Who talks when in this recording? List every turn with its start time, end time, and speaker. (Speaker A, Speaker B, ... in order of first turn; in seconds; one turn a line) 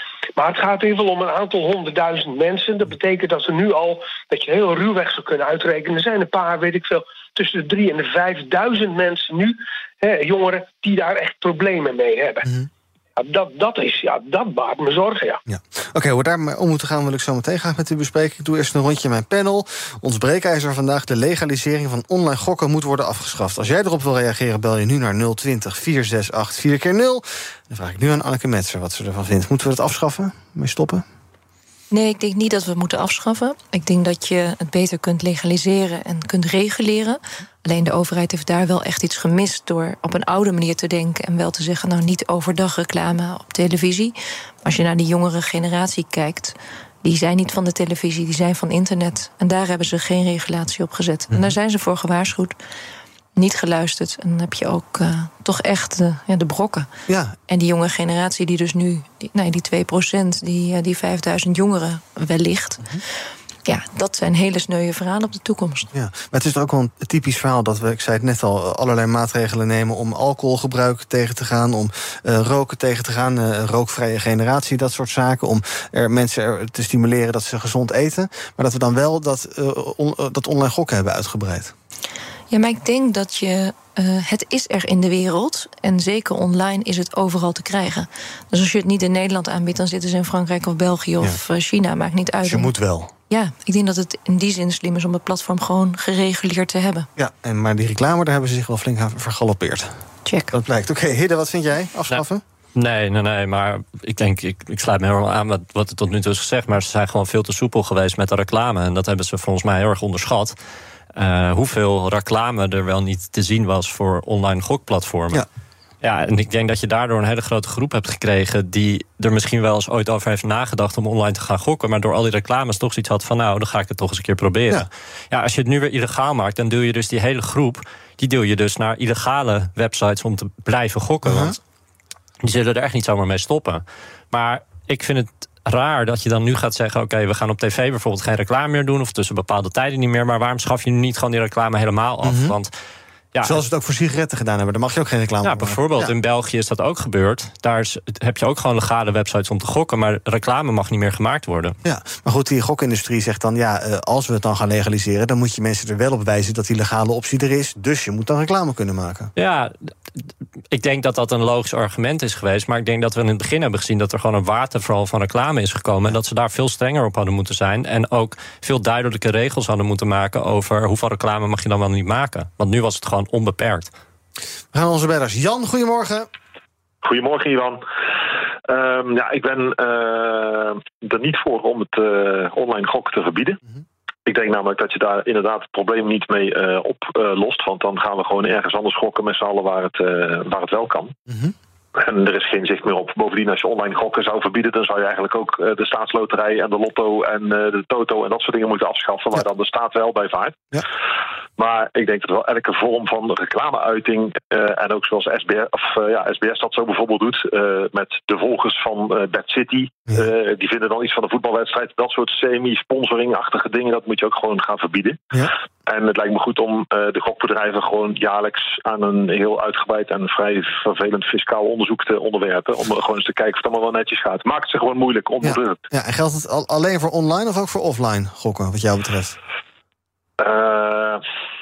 Speaker A: 0.4-12.5
Speaker A: 13.2-15.4
Speaker B: 15.5-31.0
Speaker C: 31.9-52.5
Speaker C: 53.4-56.9
Speaker B: 57.1-57.4
Speaker C: 57.5-63.0
Speaker C: 63.7-65.9
Speaker B: 65.9-81.7
Speaker C: 82.5-92.7
Speaker B: 92.4-93.1
Speaker C: 93.3-97.1
Speaker B: 97.2-99.9
Speaker C: 100.3-100.5
Speaker B: 100.5-102.4
Speaker D: 102.8-110.5
Speaker D: 111.2-115.4
Speaker D: 116.0-131.6
Speaker B: 131.2-131.6
Speaker D: 132.4-142.7
Speaker B: 142.2-142.6
Speaker D: 143.3-143.6
Speaker B: 143.4-146.1
Speaker D: 145.4-151.8
Speaker B: 151.8-159.3
Speaker D: 159.4-173.9
Speaker B: 174.7-176.3
Speaker E: 177.0-177.8
Speaker E: 178.7-183.6
Speaker E: 184.3-191.2
Speaker E: 192.0-200.8
Speaker E: 201.6-225.8
Speaker B: 225.4-229.4
Speaker E: 230.4-231.2